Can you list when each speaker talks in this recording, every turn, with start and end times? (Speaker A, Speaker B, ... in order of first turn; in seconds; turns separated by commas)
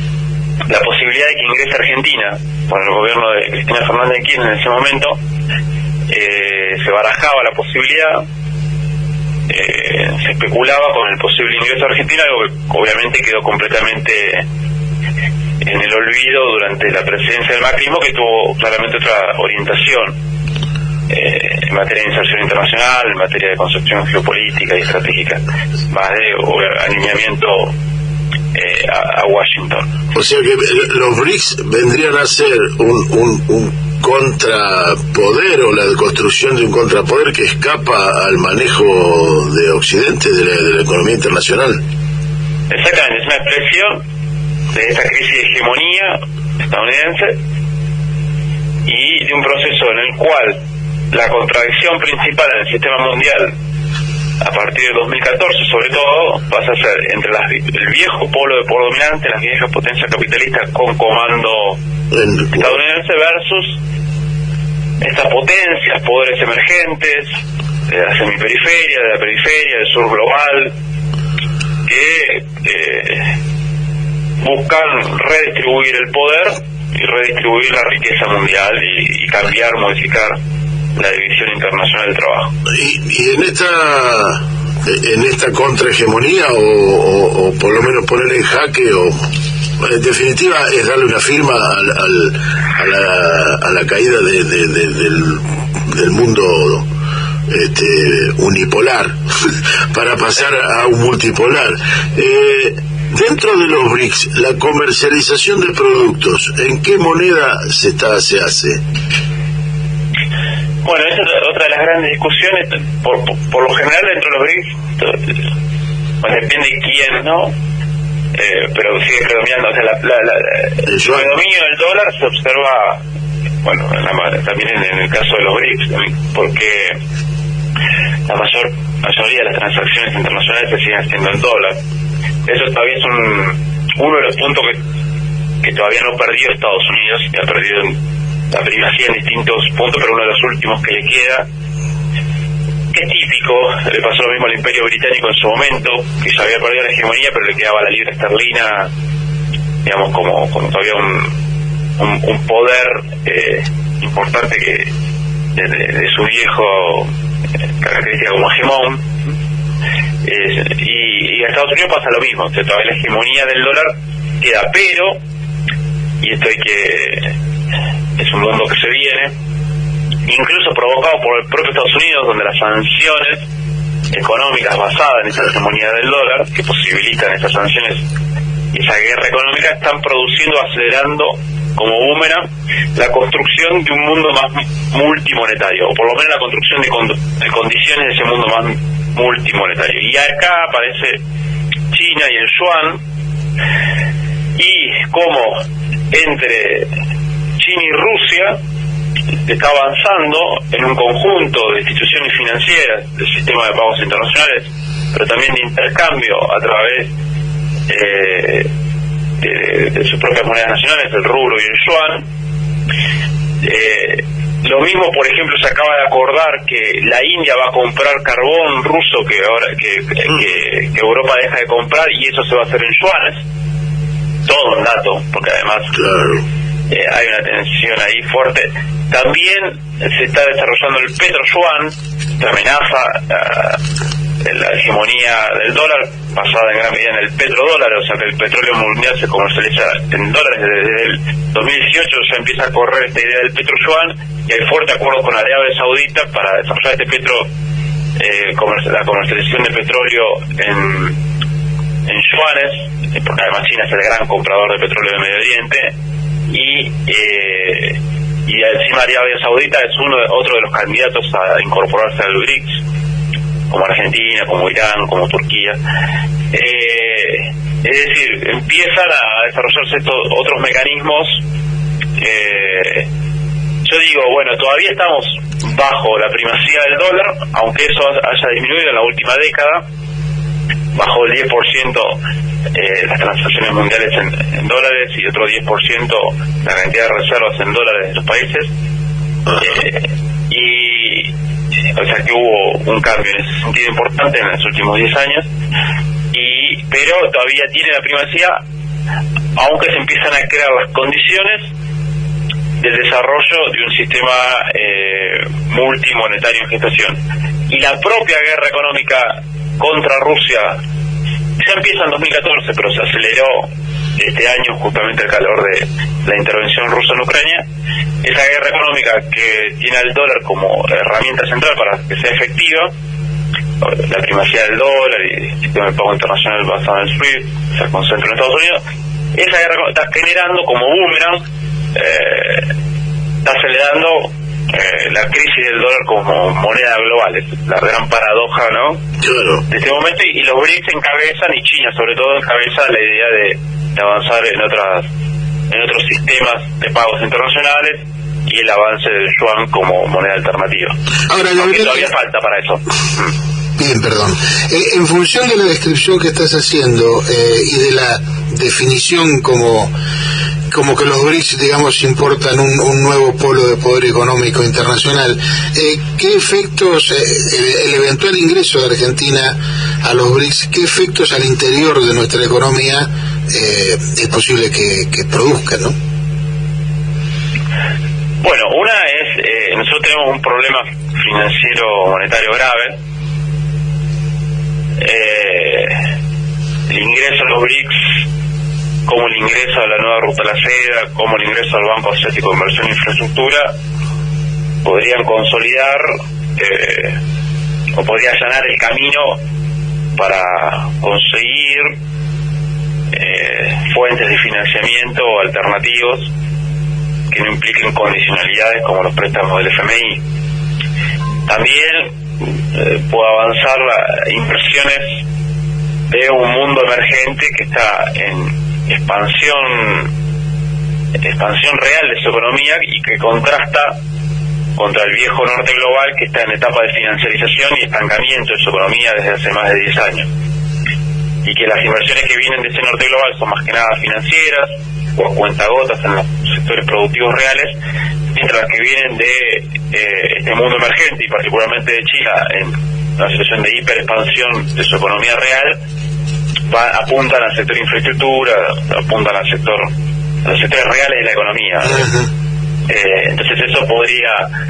Speaker A: 0.7-5.2, Speaker A: 6.1-8.2, Speaker A: 9.5-14.4, Speaker A: 15.6-20.1, Speaker A: 21.1-27.7, Speaker A: 28.5-29.9, Speaker B: 30.1-41.8, Speaker A: 42.7-44.0, Speaker A: 44.7-47.4, Speaker A: 48.9-50.6, Speaker A: 51.1-53.5, Speaker A: 54.4-61.8, Speaker B: 62.1-62.8, Speaker A: 62.5-63.8, Speaker A: 65.0-67.3, Speaker A: 67.9-70.7, Speaker A: 71.8-73.3, Speaker A: 74.4-80.4, Speaker A: 81.0-82.5, Speaker B: 82.7-89.2, Speaker B: 89.8-96.9, Speaker B: 97.5-99.1, Speaker B: 99.9-108.8, Speaker A: 110.8-115.4, Speaker A: 116.2-117.5, Speaker A: 118.3-123.0, Speaker B: 120.8-121.3, Speaker A: 123.6-127.0, Speaker A: 128.3-131.8, Speaker A: 132.4-134.8, Speaker A: 135.6-137.9, Speaker A: 138.5-141.4, Speaker A: 142.9-148.9, Speaker A: 149.8-151.3, Speaker A: 152.0-154.9, Speaker A: 155.5-157.1, Speaker A: 157.8-159.0, Speaker A: 160.2-165.2, Speaker A: 166.2-167.3, Speaker A: 168.2-169.3, Speaker A: 170.3-173.4, Speaker A: 174.1-178.0, Speaker A: 178.7-191.2, Speaker A: 191.9-193.0, Speaker A: 194.6-195.6, Speaker A: 196.1-196.9, Speaker A: 197.6-198.6, Speaker A: 199.4-207.1, Speaker A: 207.9-208.7, Speaker A: 209.4-212.2, Speaker A: 213.6-223.4, Speaker A: 224.4-225.9, Speaker B: 225.9-226.4, Speaker A: 226.9-233.8, Speaker A: 234.4-247.5, Speaker A: 248.2-251.2, Speaker A: 252.1-255.9, Speaker A: 256.5-262.8, Speaker A: 263.7-265.8, Speaker A: 266.5-271.4, Speaker A: 272.2-273.1, Speaker A: 273.8-279.8, Speaker A: 280.9-282.2, Speaker A: 282.7-288.7, Speaker A: 289.6-291.3, Speaker A: 291.9-295.5, Speaker A: 296.3-298.6, Speaker A: 299.6-301.7, Speaker A: 302.8-307.2, Speaker A: 307.7-310.8, Speaker A: 311.6-313.7, Speaker A: 314.2-317.6, Speaker A: 318.2-322.9, Speaker A: 323.8-328.8, Speaker A: 329.3-331.4, Speaker A: 331.9-332.7, Speaker A: 333.4-339.0, Speaker B: 339.2-339.6, Speaker A: 339.7-345.1, Speaker A: 345.7-350.9, Speaker C: 351.3-352.1, Speaker A: 351.5-353.3, Speaker C: 353.8-359.9, Speaker C: 360.7-375.9, Speaker A: 378.4-383.0, Speaker A: 385.0-386.0, Speaker A: 386.9-388.0, Speaker A: 389.1-393.7, Speaker A: 394.8-397.2, Speaker A: 397.9-399.4, Speaker A: 400.2-401.9, Speaker A: 403.1-406.3, Speaker A: 407.3-410.2, Speaker A: 411.5-415.2, Speaker A: 416.1-420.1, Speaker A: 421.2-423.9, Speaker A: 424.8-430.3, Speaker A: 431.4-437.7, Speaker A: 438.3-445.8, Speaker A: 446.7-449.9, Speaker A: 450.4-452.1, Speaker C: 451.9-452.2, Speaker A: 452.9-454.5